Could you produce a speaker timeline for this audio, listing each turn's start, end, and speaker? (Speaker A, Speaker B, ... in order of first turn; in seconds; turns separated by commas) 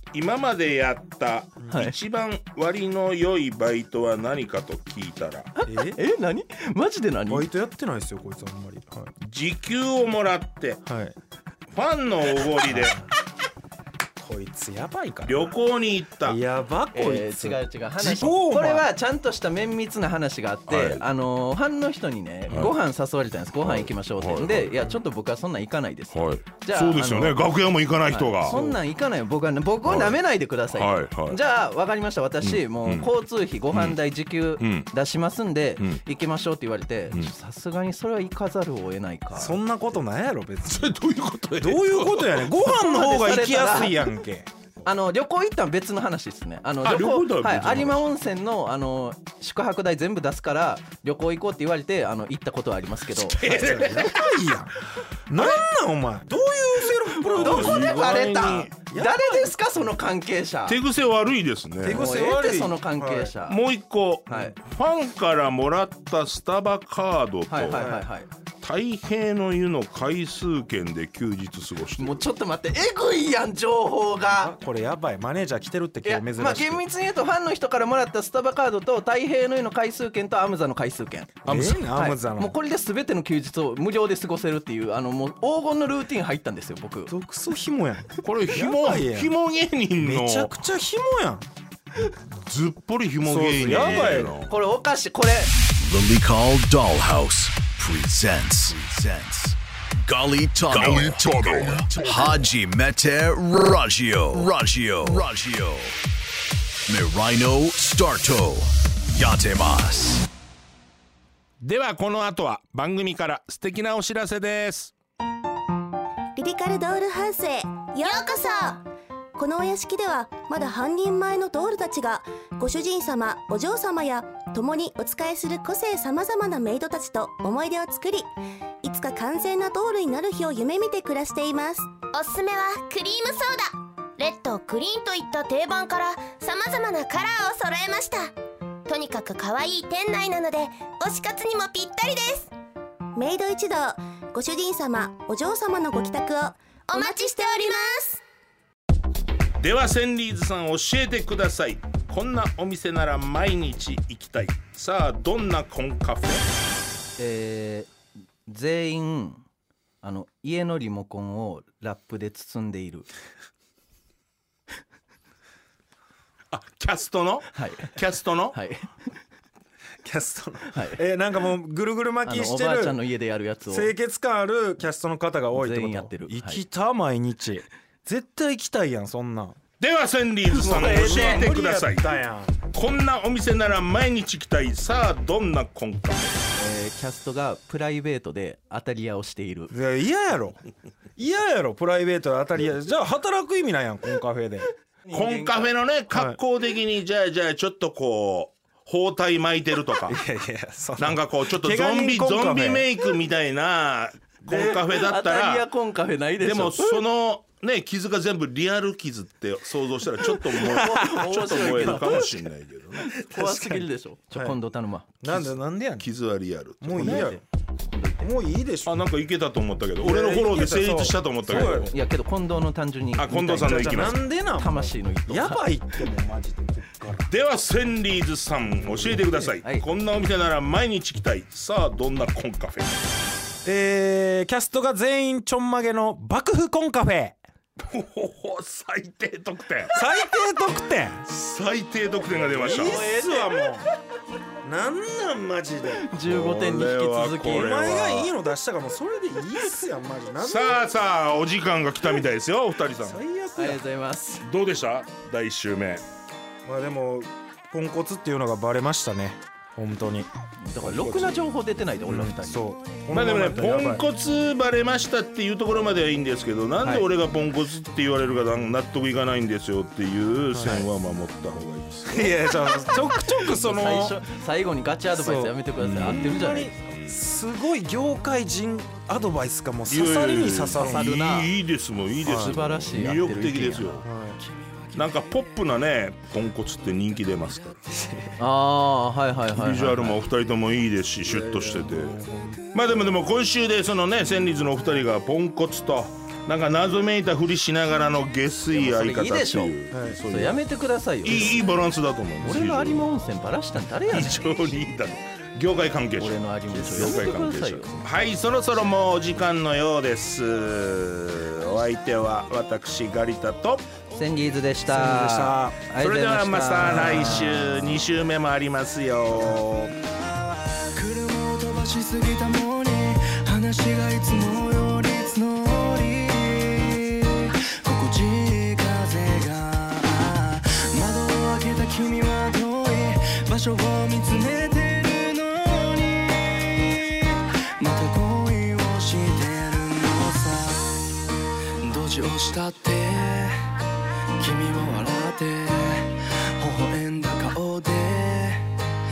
Speaker A: 0.1-5.5, Speaker B: 1.7-1.9, Speaker B: 5.6-7.5, Speaker C: 5.7-6.0, Speaker C: 7.3-9.1, Speaker A: 9.2-10.8, Speaker C: 10.8-11.2, Speaker A: 11.7-13.0, Speaker C: 12.7-13.1, Speaker C: 14.2-15.5, Speaker A: 15.2-16.4, Speaker C: 16.2-18.9, Speaker B: 16.9-27.4, Speaker A: 20.7-21.0, Speaker A: 22.5-22.7, Speaker A: 23.6-24.9, Speaker A: 26.1-28.6, Speaker B: 28.1-39.5, Speaker C: 28.5-28.8, Speaker A: 29.8-30.2, Speaker A: 30.7-31.4, Speaker A: 32.4-33.1, Speaker A: 33.7-34.0, Speaker A: 34.6-34.9, Speaker C: 39.3-40.9, Speaker A: 40.7-42.5, Speaker C: 41.6-44.5, Speaker B: 42.6-44.1, Speaker B: 44.8-53.4, Speaker A: 46.8-48.1, Speaker A: 53.1-54.2, Speaker C: 53.4-54.8, Speaker C: 55.3-59.5, Speaker A: 55.4-55.6, Speaker B: 57.1-60.8, Speaker A: 57.3-58.7, Speaker A: 60.7-62.0, Speaker C: 61.8-63.3, Speaker B: 61.8-63.6, Speaker A: 63.5-67.9, Speaker B: 64.3-64.5, Speaker B: 67.5-68.3, Speaker C: 67.7-68.0, Speaker A: 68.6-72.2, Speaker B: 72.0-74.5, Speaker C: 74.3-76.8, Speaker B: 76.0-81.4, Speaker C: 81.4-82.5, Speaker A: 81.5-81.8, Speaker B: 81.9-87.1, Speaker C: 87.1-89.3, Speaker A: 88.2-90.5, Speaker C: 90.0-91.5, Speaker A: 92.4-94.5, Speaker C: 93.2-94.4, Speaker B: 94.5-95.5, Speaker D: 95.8-106.0, Speaker A: 100.7-102.1, Speaker D: 106.9-110.3, Speaker A: 111.6-114.9, Speaker E: 116.3-118.8, Speaker F: 118.0-118.7, Speaker E: 119.3-128.3, Speaker E: 128.8-131.9, Speaker F: 132.1-138.3, Speaker F: 138.9-142.5, Speaker E: 143.1-147.7, Speaker F: 146.9-148.2, Speaker A: 149.6-156.4, Speaker B: 157.2-157.9, Speaker B: 158.5-159.4, Speaker B: 160.0-163.1, Speaker A: 166.5-168.6, Speaker B: 167.5-167.9, Speaker B: 168.5-168.9, Speaker C: 170.0-173.0, Speaker B: 170.7-171.0, Speaker B: 172.2-173.9, Speaker C: 173.7-179.6, Speaker B: 175.5-176.6, Speaker A: 179.8-182.2, Speaker B: 180.5-181.4, Speaker C: 180.6-182.6, Speaker A: 182.7-186.3, Speaker B: 186.6-189.7, Speaker C: 189.7-190.6, Speaker C: 191.2-194.7, Speaker B: 195.1-195.7, Speaker A: 195.1-200.2, Speaker C: 196.1-196.4, Speaker C: 200.1-202.9, Speaker A: 201.0-205.7, Speaker B: 204.5-207.0, Speaker A: 206.4-213.1, Speaker C: 210.4-212.2, Speaker B: 210.6-212.3, Speaker B: 213.1-215.1, Speaker C: 213.2-214.6, Speaker C: 215.2-216.1, Speaker A: 216.0-217.3, Speaker C: 216.8-217.4, Speaker B: 216.9-218.3, Speaker C: 218.2-219.1, Speaker A: 218.8-221.9, Speaker C: 220.0-221.9, Speaker B: 221.5-225.7, Speaker A: 223.2-224.2, Speaker C: 223.6-227.3, Speaker A: 227.3-233.0, Speaker C: 229.1-229.4, Speaker C: 233.6-237.4, Speaker A: 237.8-239.9, Speaker C: 239.9-241.3, Speaker A: 241.3-243.0, Speaker C: 242.4-243.9, Speaker B: 242.6-243.7, Speaker C: 244.6-246.0, Speaker B: 245.9-248.0, Speaker A: 246.2-248.3, Speaker C: 247.5-250.8, Speaker A: 250.4-253.2, Speaker C: 253.0-253.8, Speaker B: 253.6-254.4, Speaker A: 254.4-256.0, Speaker C: 256.6-260.3, Speaker B: 260.6-262.7, Speaker A: 260.9-261.4, Speaker C: 262.1-264.0, Speaker A: 263.1-272.4, Speaker C: 270.5-270.9, Speaker C: 272.1-274.2, Speaker B: 273.5-276.7, Speaker C: 275.1-281.3, Speaker A: 275.8-277.2, Speaker A: 279.9-284.1, Speaker B: 280.8-281.5, Speaker B: 282.2-284.0, Speaker C: 282.2-282.6, Speaker C: 284.0-284.4, Speaker G: 284.3-285.6, Speaker A: 284.9-287.9, Speaker G: 287.2-287.8, Speaker C: 287.9-288.4, Speaker B: 288.4-290.2, Speaker A: 289.5-292.2, Speaker C: 291.2-292.7, Speaker A: 292.7-300.6, Speaker B: 298.7-301.6, Speaker C: 299.9-300.2, Speaker A: 301.2-303.1, Speaker B: 302.4-304.6, Speaker A: 304.1-313.9, Speaker B: 306.2-308.0, Speaker C: 306.7-307.4, Speaker B: 314.1-317.9, Speaker C: 314.8-315.8, Speaker A: 315.9-319.9, Speaker C: 316.8-317.5, Speaker G: 319.8-340.9, Speaker G: 341.8-343.6, Speaker G: 344.4-348.7